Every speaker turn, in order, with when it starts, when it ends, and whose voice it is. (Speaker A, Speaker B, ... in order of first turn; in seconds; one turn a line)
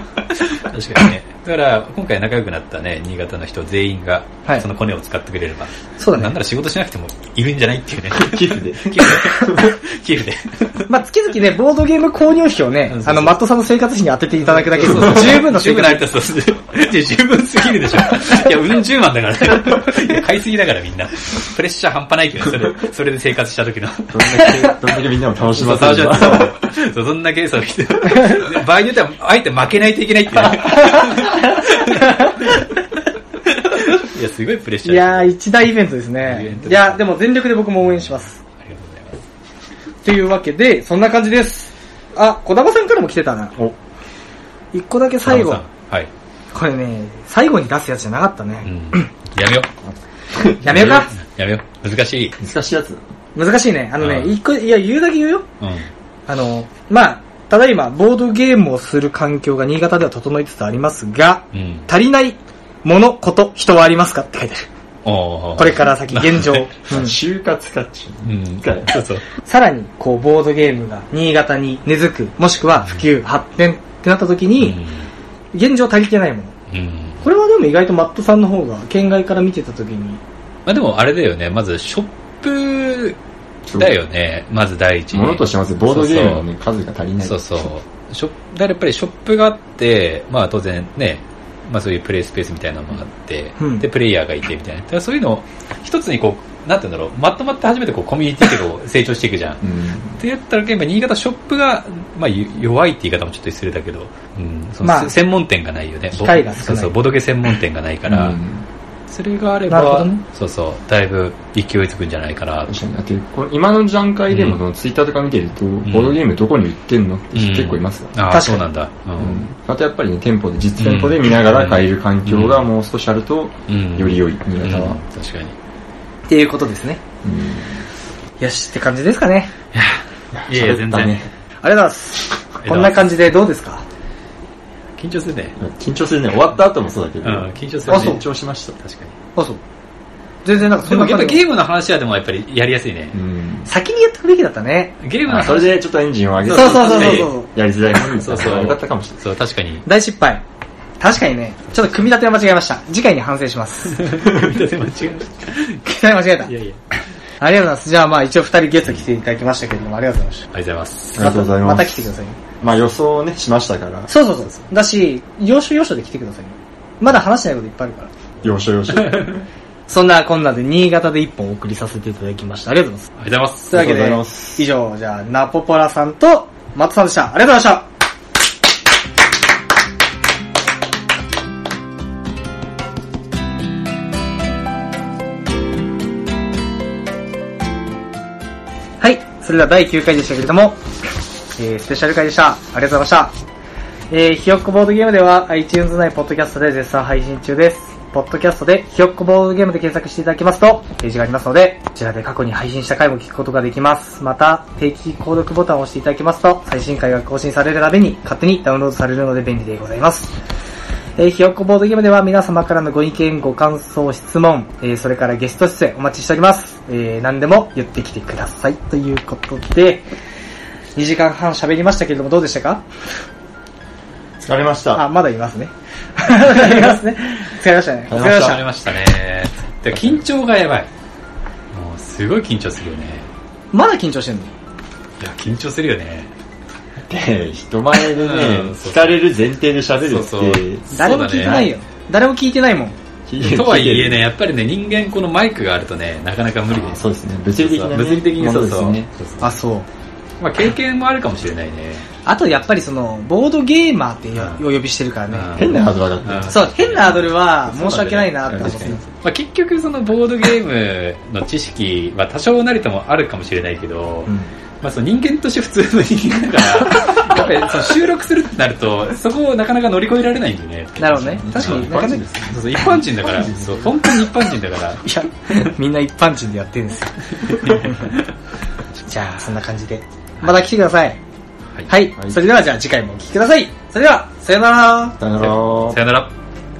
Speaker A: 0.4-10.9
Speaker B: 6.0-6.3
Speaker C: 8.1-9.8
Speaker B: 10.9-16.1
Speaker A: 12.9-13.4
Speaker A: 14.5-24.7
Speaker C: 24.1-26.5
Speaker A: 25.5-32.7
Speaker B: 30.7-32.4
Speaker A: 33.8-35.3
Speaker B: 34.8-38.4
Speaker A: 36.2-37.1
Speaker A: 37.8-39.2
Speaker B: 40.0-43.6
Speaker B: 44.7-45.6
Speaker A: 45.2-46.1
Speaker B: 46.5-49.1
Speaker A: 48.6-49.7
Speaker C: 50.3-51.1
Speaker B: 50.6-51.1
Speaker A: 50.7-52.4
Speaker C: 52.4-53.0
Speaker B: 53.3-55.5
Speaker A: 54.0-54.4
Speaker A: 55.6-55.9
Speaker B: 56.3-64.7
Speaker A: 61.5-61.9
Speaker A: 65.0-66.7
Speaker B: 65.6-67.2
Speaker C: 66.9-69.0
Speaker A: 68.2-69.2
Speaker B: 69.4-74.8
Speaker A: 74.6-75.1
Speaker B: 75.5-76.5
Speaker A: 76.7-77.2
Speaker B: 77.2-80.2
Speaker A: 80.7-83.2
Speaker C: 83.7-83.9
Speaker A: 83.8-86.4
Speaker C: 85.1-87.4
Speaker A: 87.2-99.6
Speaker B: 93.6-93.8
Speaker C: 99.6-100.2
Speaker A: 100.2-108.4
Speaker B: 104.8-105.1
Speaker B: 106.1-106.9
Speaker C: 108.1-108.6
Speaker A: 109.1-112.7
Speaker B: 109.7-110.2
Speaker C: 112.7-118.1
Speaker A: 114.3-114.6
Speaker A: 115.8-116.2
Speaker A: 117.3-119.4
Speaker B: 118.3-118.6
Speaker C: 119.2-125.0
Speaker A: 120.8-122.7
Speaker A: 123.7-125.5
Speaker B: 126.3-127.0
Speaker C: 127.2-127.8
Speaker B: 128.4-129.5
Speaker A: 129.7-131.3
Speaker C: 130.3-131.3
Speaker B: 131.6-133.8
Speaker A: 132.6-133.1
Speaker A: 135.0-135.6
Speaker C: 135.6-138.8
Speaker A: 137.2-138.2
Speaker B: 137.9-138.2
Speaker A: 138.8-139.1
Speaker B: 140.4-141.4
Speaker A: 140.8-143.2
Speaker C: 143.1-143.7
Speaker B: 143.7-144.9
Speaker A: 145.0-145.8
Speaker C: 145.3-149.2
Speaker A: 146.5-147.3
Speaker B: 146.5-147.5
Speaker A: 148.2-149.8
Speaker B: 149.8-150.4
Speaker B: 151.0-154.1
Speaker A: 153.9-155.9
Speaker B: 155.8-156.5
Speaker A: 156.4-156.8
Speaker B: 157.4-160.5
Speaker A: 160.5-161.3
Speaker C: 161.2-164.1
Speaker B: 161.2-162.4
Speaker B: 164.1-168.1
Speaker C: 168.4-169.4
Speaker A: 168.9-169.4
Speaker B: 169.9-173.1
Speaker A: 173.2-173.8
Speaker B: 173.7-177.9
Speaker C: 173.7-174.6
Speaker B: 189.0-190.8
Speaker B: 191.5-193.3
Speaker B: 194.1-210.3
Speaker B: 211.2-220.0
Speaker B: 220.9-222.8
Speaker C: 224.4-225.0
Speaker B: 224.9-228.6
Speaker A: 228.1-230.9
Speaker C: 229.9-230.2
Speaker A: 231.7-233.3
Speaker B: 233.7-234.5
Speaker A: 235.2-236.3
Speaker C: 237.1-240.8
Speaker A: 238.1-239.2
Speaker A: 240.0-241.7
Speaker B: 240.9-242.9
Speaker C: 243.3-244.2
Speaker A: 243.4-247.1
Speaker C: 246.7-249.1
Speaker A: 247.6-249.5
Speaker B: 249.4-249.9
Speaker A: 250.4-252.1
Speaker B: 252.2-255.8
Speaker A: 254.3-254.6
Speaker A: 255.3-275.0
Speaker C: 255.6-256.7
Speaker B: 256.5-259.0
Speaker C: 258.5-259.0
Speaker B: 264.3-264.5
Speaker B: 271.0-272.2
Speaker C: 271.4-273.9
Speaker B: 275.0-278.1
Speaker A: 277.6-278.2
Speaker B: 279.1-281.2
Speaker B: 281.9-285.2
Speaker C: 285.2-286.0
Speaker A: 285.4-286.3